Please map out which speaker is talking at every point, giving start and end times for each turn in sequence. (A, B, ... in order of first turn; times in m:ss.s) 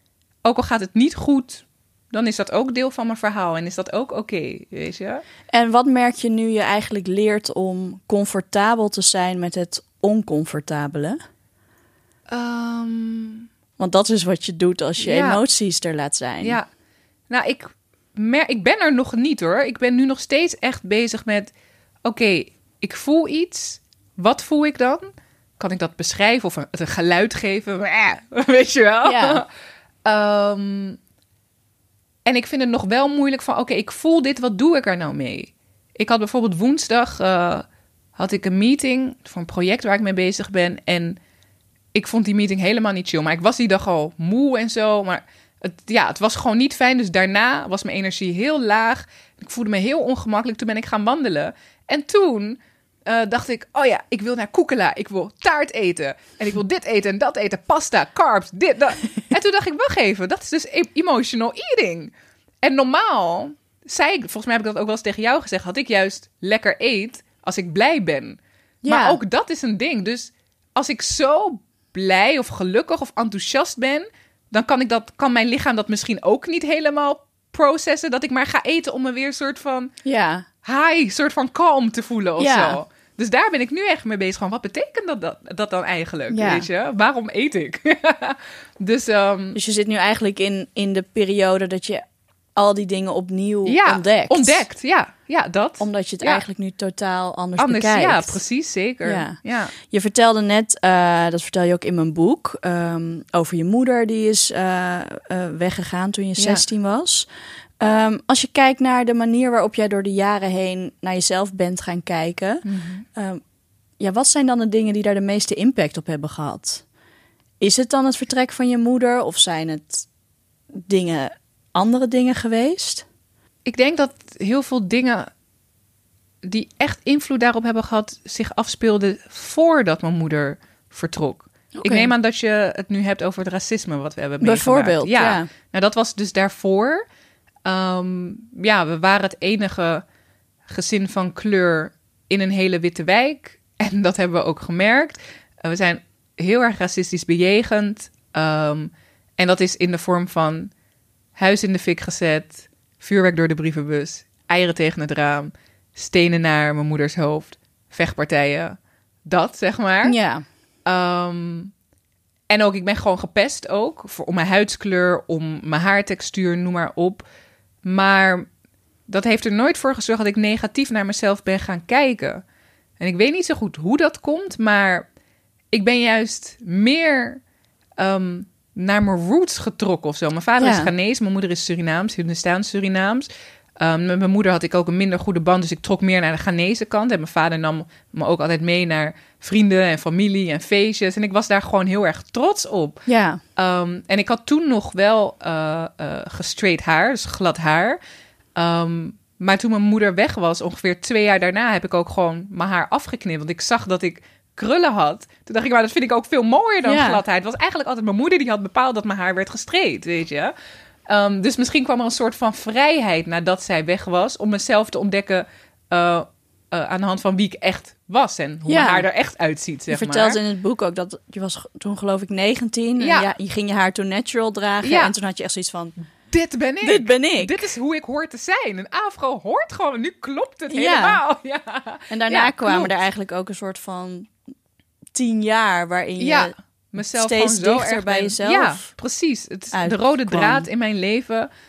0:00.4-0:05.2 A
0:05.5-0:11.2 B
0:12.3-0:13.5 A
0:13.8-0:16.6 B
0:15.0-0:15.4 A
0:16.4-0:16.7 A
0:17.3-0:21.5 A
0:22.0-0:25.1 A
0:25.6-0:29.5 A
0:29.0-0:29.4 B
0:30.0-0:31.0 A
0:32.2-0:41.2 A
0:41.9-1:19.9 A
1:08.8-1:09.2 B
1:20.0-1:20.5 B
1:20.6-1:29.6 A
1:22.4-1:22.8 B
1:26.3-1:26.7 B
1:29.5-1:32.0 B
1:32.6-1:34.6 B
1:33.6-1:36.4 A
1:35.8-1:38.4 B
1:37.6-1:39.7 A
1:39.0-1:47.3 B
1:46.4-1:46.6 A
1:47.8-1:53.4 B
1:52.6-1:53.0 A
1:54.0-1:56.8 B
1:57.6-2:00.1 B
2:00.8-2:03.1 B
2:03.6-2:05.3 A
2:06.4-2:17.0 A
2:11.8-2:12.1 B
2:14.4-2:15.5 B
2:17.6-2:20.0 A
2:20.7-2:30.7 A
2:31.4-2:40.2 A
2:40.0-2:40.5 B
2:40.8-2:41.7 A
2:42.5-2:47.2 A
2:47.8-2:48.5 A
2:49.1-2:52.4 A
2:53.0-2:55.1 A
2:55.7-2:57.4 A
2:58.0-3:18.0 A
3:00.6-3:00.9 B
3:13.1-3:13.4 B
3:18.6-3:30.5 A
3:26.8-3:27.2 B
3:31.1-3:40.4 A
3:38.7-3:39.1 B
3:39.9-3:46.0 B
3:43.0-3:43.3 A
3:44.8-3:45.1 A
3:46.3-3:52.9 A
3:46.8-3:47.6 B
3:50.7-3:51.2 B
3:52.1-3:54.3 B
3:55.1-3:58.9 B
3:56.2-4:01.5 A
3:59.7-4:00.7 B